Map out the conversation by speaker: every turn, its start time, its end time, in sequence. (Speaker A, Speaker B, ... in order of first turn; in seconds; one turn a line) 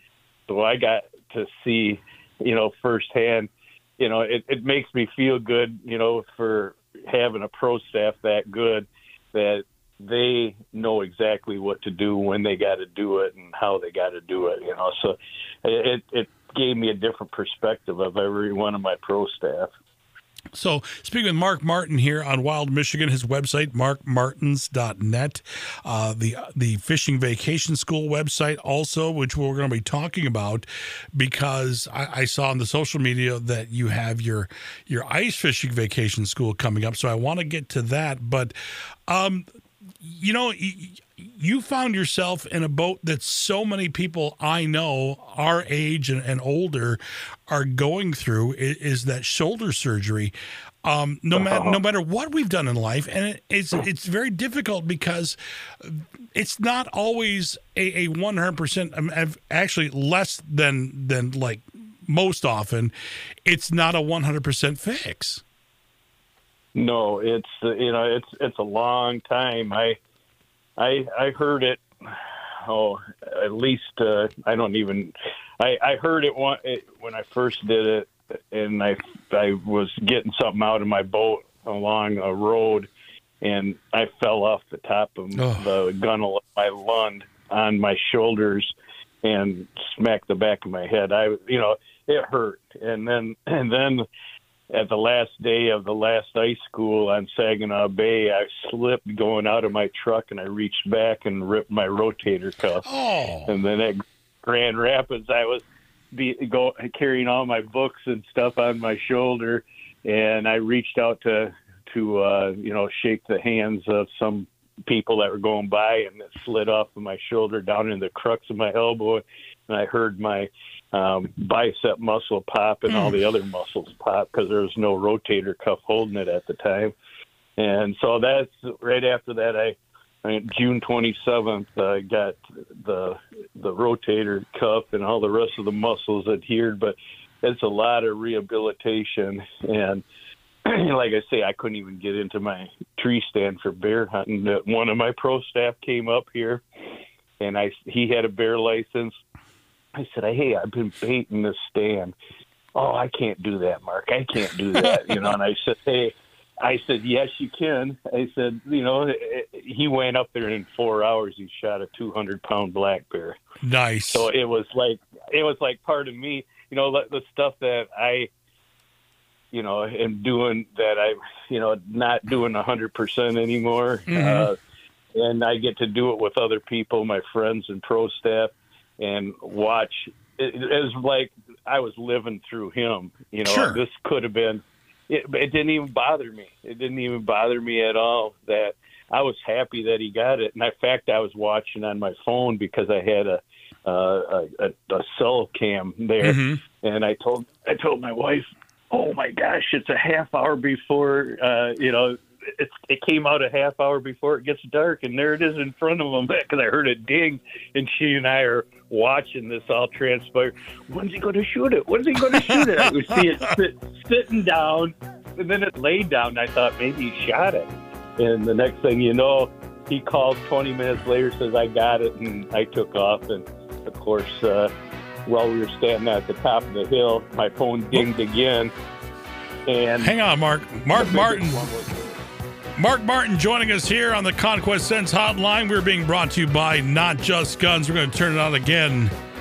Speaker A: 0.5-19.7
Speaker B: 20.5-38.5
Speaker B: 39.1-39.4
Speaker B: 40.0-50.3
Speaker B: 50.8-62.9
Speaker A: 51.4-51.8
Speaker B: 63.5-65.4
Speaker A: 66.7-70.0
Speaker A: 70.8-82.9
Speaker A: 83.4-94.0
Speaker B: 85.3-85.7
Speaker A: 94.7-102.8
Speaker B: 102.8-103.5
Speaker A: 103.5-126.9
Speaker B: 122.9-123.2
Speaker A: 127.6-140.0
Speaker A: 140.6-146.6
Speaker A: 147.4-149.2
Speaker A: 149.9-152.1
Speaker A: 152.7-163.4
Speaker B: 163.6-164.3
Speaker A: 164.1-168.3
Speaker A: 169.5-174.6
Speaker B: 174.1-174.5
Speaker A: 175.1-224.7
Speaker B: 183.4-183.8
Speaker B: 196.2-196.6
Speaker A: 225.2-228.7
Speaker A: 229.7-230.1
Speaker B: 230.0-231.6
Speaker A: 230.9-232.2
Speaker B: 232.8-239.1